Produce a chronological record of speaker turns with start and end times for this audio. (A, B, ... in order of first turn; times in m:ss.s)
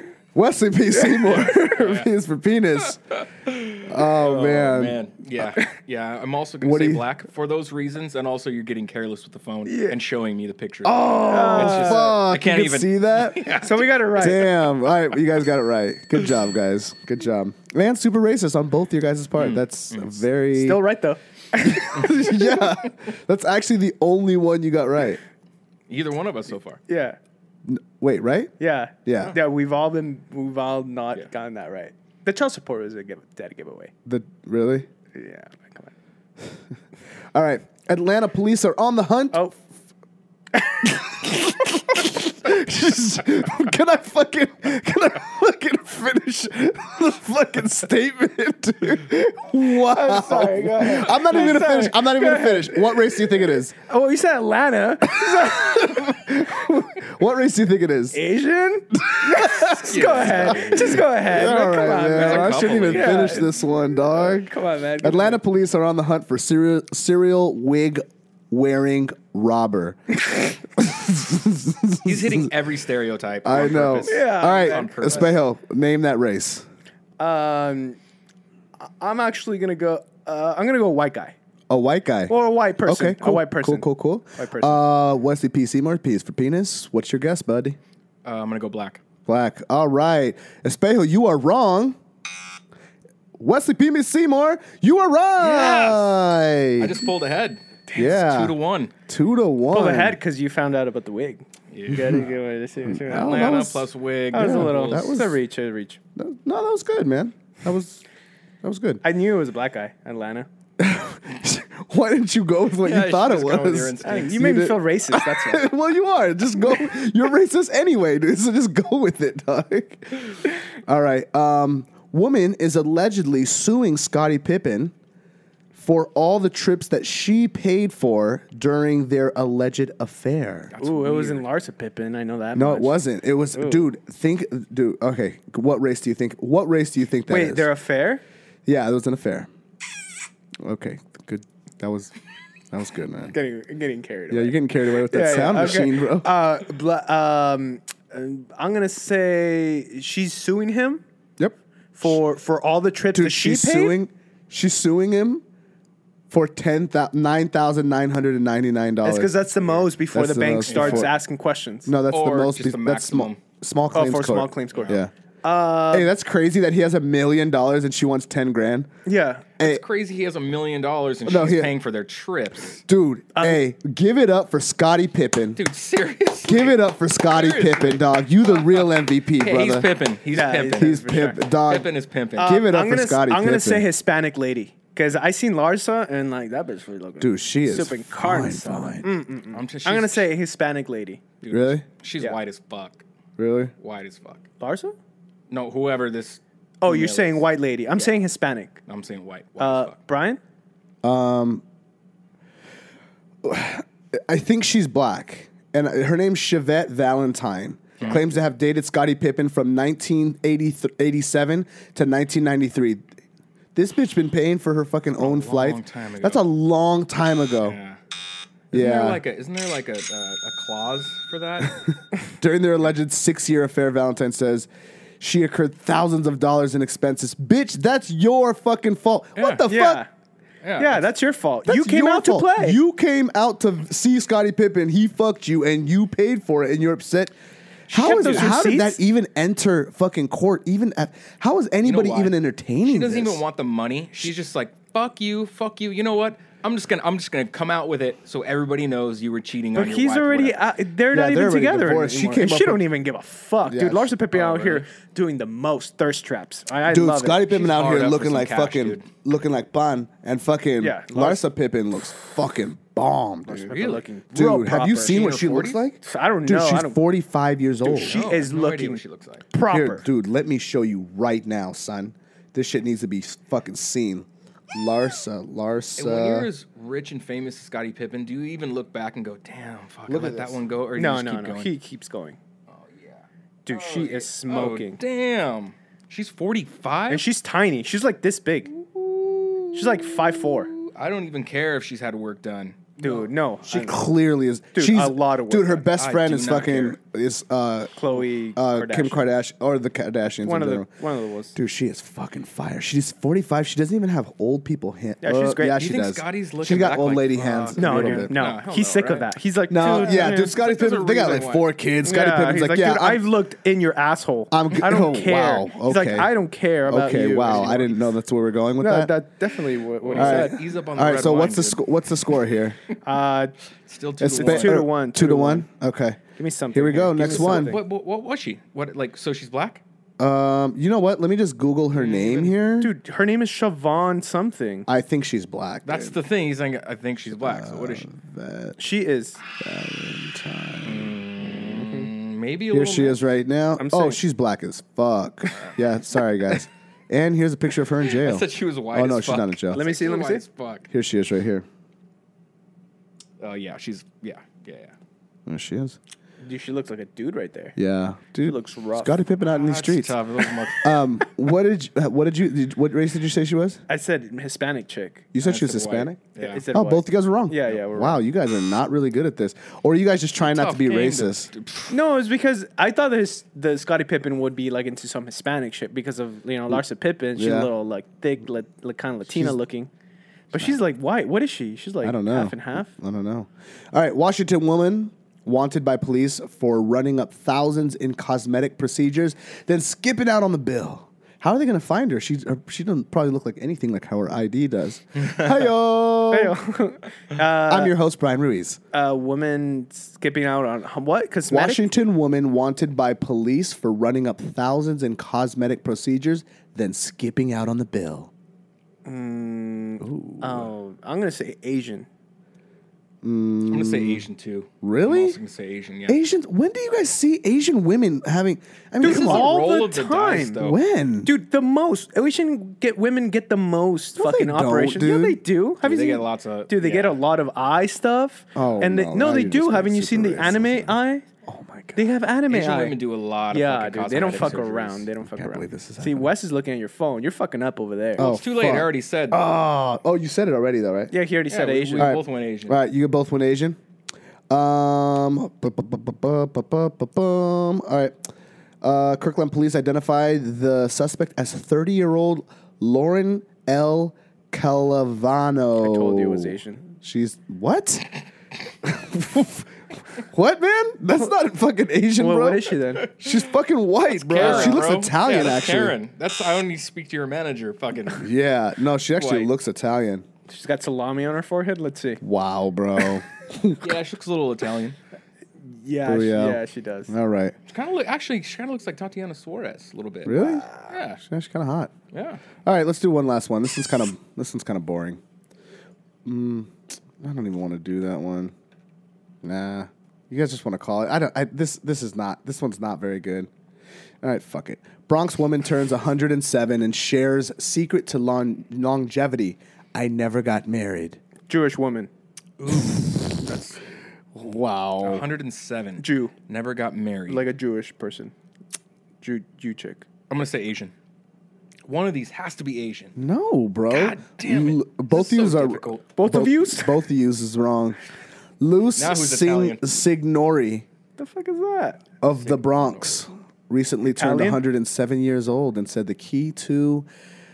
0:00.3-0:03.1 A
0:01.4-0:02.1 B
0:03.4-0:13.9 B
0:03.8-0:05.0 A
0:06.6-0:07.0 A
0:09.6-0:10.0 C
0:10.8-0:13.5 A
0:11.3-0:12.1 C
0:13.6-0:14.5 C
0:14.2-0:20.8 A
0:19.4-0:20.2 B
0:20.5-0:22.6 C
0:21.6-0:25.2 A
0:25.9-0:26.8 B
0:26.9-0:27.2 C
0:27.6-0:28.5 A
0:28.6-0:33.9 C
0:29.0-0:29.3 A
0:34.0-0:34.9 A
0:35.1-0:35.9 C
0:37.3-0:39.6 A
0:40.5-0:41.0 C
0:40.8-0:53.8 A
0:49.8-0:53.3 C
0:53.8-0:56.1 C
0:55.1-0:58.2 A
0:58.1-1:05.4 C
0:58.9-1:12.5 A
0:59.8-1:03.5 B
1:12.0-1:15.4 B
1:13.4-1:16.6 A
1:14.0-1:15.3 C
1:17.2-1:18.0 C
1:18.8-1:21.3 C
1:21.7-1:27.8 A
1:22.3-1:24.8 C
1:28.2-1:29.0 B
1:29.2-1:32.0 A
1:33.4-1:37.1 A
1:35.4-1:36.2 B
1:36.8-1:38.9 B
1:37.9-1:38.6 A
1:39.1-1:40.2 A
1:39.7-1:43.5 C
1:41.7-1:42.2 B
1:41.9-1:42.2 A
1:42.8-1:45.4 A
1:43.1-1:45.2 B
1:44.3-1:46.0 C
1:46.2-1:48.0 A
1:48.6-1:49.0 A
1:49.0-1:50.5 C
1:50.8-2:04.9 A
1:52.8-1:54.5 B
1:54.0-1:55.7 C
2:05.7-2:10.7 A
2:10.7-2:11.4 B
2:10.8-2:13.0 C
2:12.5-2:17.7 A
2:13.5-2:13.8 C
2:17.3-2:18.2 C
2:18.6-2:19.5 A
2:20.6-2:22.1 A
2:22.7-2:23.3 A
2:23.3-2:31.0 C
2:24.3-2:26.3 A
2:31.4-2:32.2 A
2:31.9-2:34.0 C
2:33.1-2:35.4 A
2:36.3-2:41.1 A
2:39.0-2:41.9 C
2:40.6-2:41.1 B
2:41.8-2:45.1 A
2:42.1-2:43.4 B
2:43.9-2:46.1 C
2:44.7-2:45.0 B
2:45.9-2:48.9 A
2:49.0-2:49.4 C
2:49.6-2:52.8 B
2:51.2-2:51.7 A
2:52.8-2:55.6 A
2:53.4-2:53.6 C
2:55.6-3:02.6 B
2:56.4-2:59.9 A
3:00.3-3:01.4 C
3:00.7-3:03.9 A
3:02.4-3:11.2 C
3:07.2-3:09.1 A
3:09.5-3:10.3 B
3:11.4-3:13.0 B
3:11.5-3:11.8 A
3:13.4-3:13.7 A
3:13.8-3:14.4 B
3:14.6-3:15.0 C
3:15.5-3:17.4 B
3:16.8-3:18.8 C
3:17.9-3:18.2 B
3:18.9-3:20.0 B
3:19.6-3:20.4 C
3:21.0-3:21.6 A
3:23.4-3:33.0 A
3:33.7-3:37.8 A
3:35.2-3:36.4 B
3:37.6-3:38.0 B
3:38.7-3:39.2 A
3:38.7-3:41.8 B
3:42.4-3:44.7 A
3:45.2-3:50.0 A
3:49.4-3:49.6 B
3:49.7-3:50.1 C
3:50.6-3:51.1 B
3:50.8-3:52.8 C
3:51.6-3:57.3 A
3:57.9-4:03.4 A
3:57.9-3:59.0 C
4:01.8-4:10.6 B
4:09.7-4:17.4 C
4:11.1-4:12.8 A
4:13.6-4:14.1 A
4:14.3-4:14.8 B
4:16.9-4:23.7 A
4:17.4-4:19.1 B
4:20.8-4:21.4 C
4:23.5-4:25.5 C
4:23.7-4:24.0 B
4:24.3-4:28.2 A
4:24.9-4:25.8 B
4:26.0-4:27.0 C
4:27.8-4:30.0 C
4:27.9-4:29.4 B
4:29.7-4:36.5 A
4:36.0-4:41.7 B
4:40.1-4:40.6 A
4:40.9-4:42.4 C
4:42.7-4:47.2 B
4:43.6-4:45.0 C
4:47.1-4:48.7 C
4:48.9-4:53.2 B
4:49.7-4:50.7 C
4:53.0-4:54.0 C
4:53.6-4:58.0 A
4:54.7-4:55.9 C
4:55.9-4:57.0 B
4:58.0-4:59.2 C
4:58.6-5:00.9 A
5:00.4-5:01.6 C
5:01.5-5:08.3 A
5:05.2-5:05.8 C
5:05.7-5:11.7 B
5:07.8-5:10.5 C
5:09.7-5:13.2 A
5:12.0-5:17.9 C
5:14.5-5:16.3 A
5:16.9-5:19.1 A
5:18.8-5:20.5 C
5:20.0-5:21.8 B
5:20.1-5:22.8 A
5:23.0-5:23.5 C
5:23.9-5:24.8 B
5:24.2-5:27.8 A
5:24.4-5:25.7 C
5:26.4-5:27.8 C
5:27.2-5:29.8 B
5:30.2-5:32.9 A
5:31.9-5:32.5 B
5:32.8-5:34.9 C
5:34.9-5:36.2 A
5:35.8-5:38.1 B
5:37.3-5:38.8 A
5:38.8-5:39.4 C
5:39.6-5:41.2 A
5:40.8-5:43.2 B
5:41.5-5:42.1 C
5:42.7-5:49.8 A
5:43.8-5:44.2 C
5:48.0-5:50.9 B
5:49.7-5:50.4 C
5:50.9-5:51.6 A
5:53.4-5:54.9 B
5:55.5-5:56.0 A
5:56.4-5:57.7 C
5:57.8-6:00.1 A
5:58.4-5:59.1 C
5:59.4-6:01.0 B
6:00.8-6:03.8 A
6:03.9-6:05.2 C
6:05.3-6:06.2 A
6:05.4-6:06.6 B
6:06.4-6:08.2 C
6:06.7-6:11.5 A
6:10.4-6:12.0 B
6:11.9-6:19.9 C
6:17.4-6:17.7 A
6:19.3-6:19.5 A
6:20.5-6:22.9 C
6:22.0-6:36.6 A
6:36.3-6:37.9 C
6:37.6-6:38.8 A
6:38.9-6:41.9 C
6:41.5-6:48.3 A
6:49.0-6:52.1 C
6:50.0-6:50.7 A
6:53.2-6:54.2 A
6:53.7-6:56.2 B
6:54.8-6:55.4 A
6:56.1-6:59.5 A
6:59.0-7:00.6 C
6:59.0-7:00.8 B
7:00.6-7:01.3 A
7:01.2-7:11.2 C
7:04.2-7:05.4 A
7:05.8-7:07.2 B
7:08.5-7:12.0 A
7:12.0-7:13.0 C
7:12.5-7:15.0 B
7:13.5-7:18.3 C
7:15.4-7:16.3 A
7:18.2-7:19.4 B
7:18.2-7:21.1 A
7:21.1-7:22.2 C
7:21.5-7:22.8 B
7:22.0-7:23.8 A
7:24.5-7:28.2 A
7:28.8-7:38.0 A
7:35.8-7:36.9 C
7:38.8-7:46.0 A
7:42.2-7:43.1 C
7:44.1-7:48.3 B
7:44.4-7:44.8 C
7:48.1-7:50.2 A
7:49.2-7:49.5 B
7:50.5-7:52.2 C
7:52.2-7:53.9 A
7:53.8-7:55.0 B
7:55.7-7:57.1 C
7:56.0-7:57.6 A
7:57.7-8:01.2 B
8:00.2-8:00.6 A
8:00.3-8:00.9 C
8:01.2-8:01.9 A
8:02.1-8:02.4 B
8:02.6-8:05.2 A
8:06.2-8:08.5 A
8:09.4-8:13.5 A
8:14.2-8:21.2 A
8:21.5-8:22.1 C
8:22.6-8:23.8 B
8:22.7-8:23.2 A
8:24.3-8:25.3 A
8:25.0-8:27.4 B
8:26.0-8:26.3 C
8:27.3-8:28.3 C
8:29.2-8:30.0 C
8:30.3-8:30.9 B
8:31.9-8:33.1 B
8:33.2-8:38.0 A
8:33.9-8:36.1 B
8:36.2-8:37.0 C
8:38.6-8:40.8 A
8:39.0-8:39.9 B
8:41.2-8:42.0 C
8:42.2-8:47.1 A
8:42.3-8:43.0 B
8:44.2-8:44.6 C